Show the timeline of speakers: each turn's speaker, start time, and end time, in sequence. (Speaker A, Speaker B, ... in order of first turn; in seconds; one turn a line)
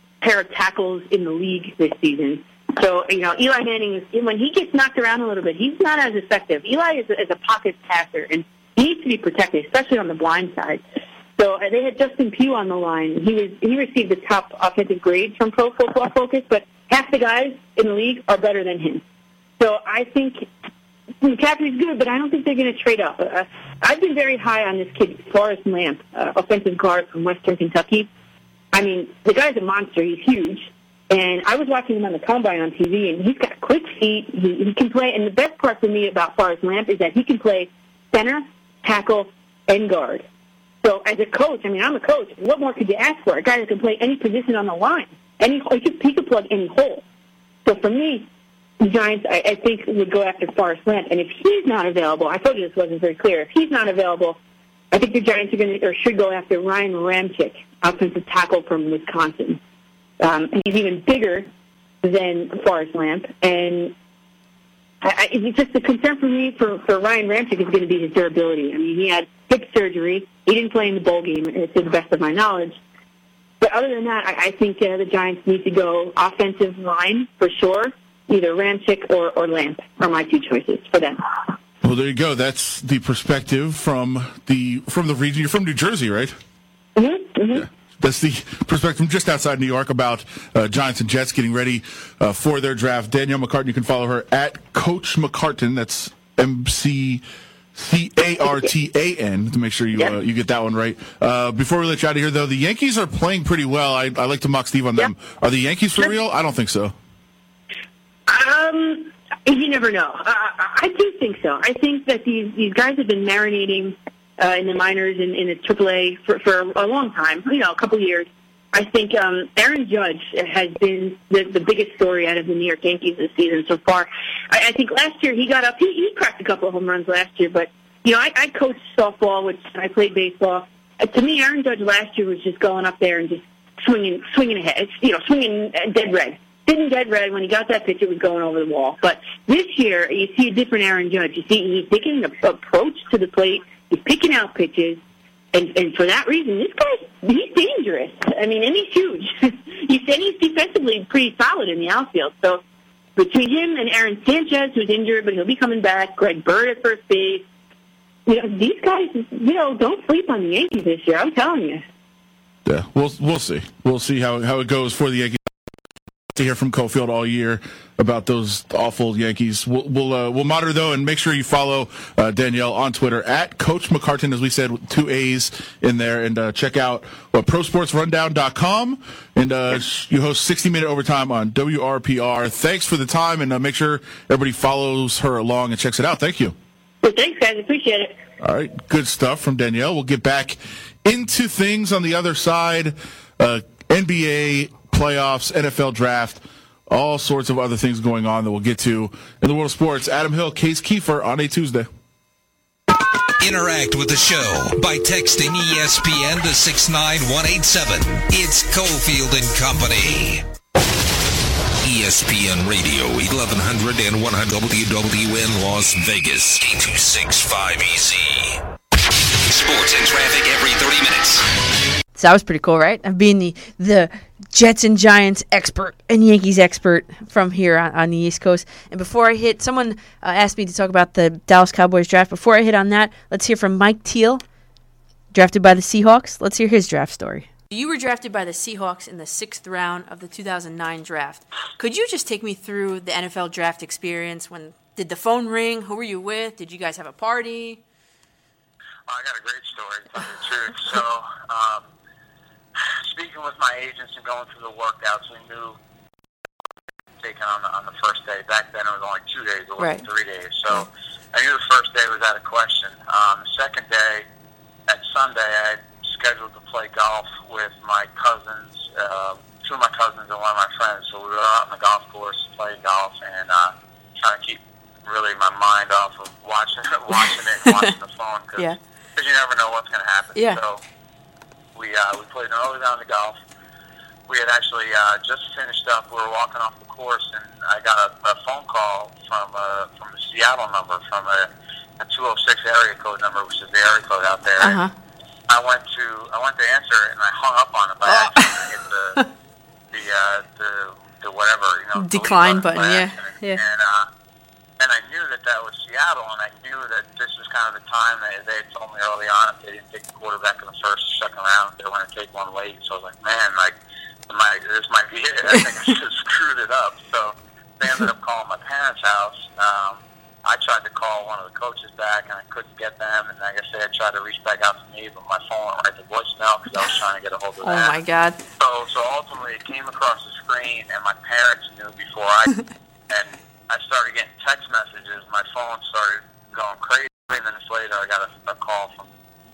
Speaker A: 0.2-10.8
Speaker A: 11.4-19.0
Speaker A: 19.6-20.5
Speaker A: 21.2-28.1
Speaker A: 28.7-40.2
Speaker A: 40.8-47.0
Speaker A: 47.6-48.3
Speaker A: 48.8-54.4
Speaker A: 54.9-59.6
Speaker A: 60.2-61.5
Speaker A: 62.0-63.9
Speaker A: 65.0-72.8
Speaker A: 73.6-81.2
Speaker B: 81.8-86.3
Speaker A: 87.0-87.6
Speaker B: 87.5-97.2
Speaker B: 97.7-106.9
Speaker A: 108.3-145.0
Speaker A: 145.5-152.6
Speaker A: 153.2-157.4
Speaker A: 158.3-161.8
Speaker B: 162.6-165.4
Speaker B: 166.3-186.5
Speaker A: 187.0-188.1
Speaker B: 188.4-201.9
Speaker C: 203.4-210.4
Speaker C: 211.8-218.6
Speaker C: 219.4-221.4
Speaker D: 222.1-234.4
Speaker D: 235.3-247.8
Speaker E: 249.1-251.8
Speaker E: 253.1-255.8
Speaker E: 257.2-264.2
Speaker D: 259.8-260.0
Speaker E: 264.9-280.8
Speaker D: 280.3-280.6
Speaker E: 281.8-283.4
Speaker E: 284.3-291.5
Speaker E: 292.0-294.8
Speaker D: 294.6-294.9
Speaker E: 295.5-299.2
Speaker D: 298.1-298.6
Speaker E: 299.9-304.1
Speaker D: 302.0-303.6
Speaker E: 304.8-313.8
Speaker E: 314.3-328.0
Speaker D: 327.6-328.4
Speaker E: 328.6-332.6
Speaker E: 333.1-339.1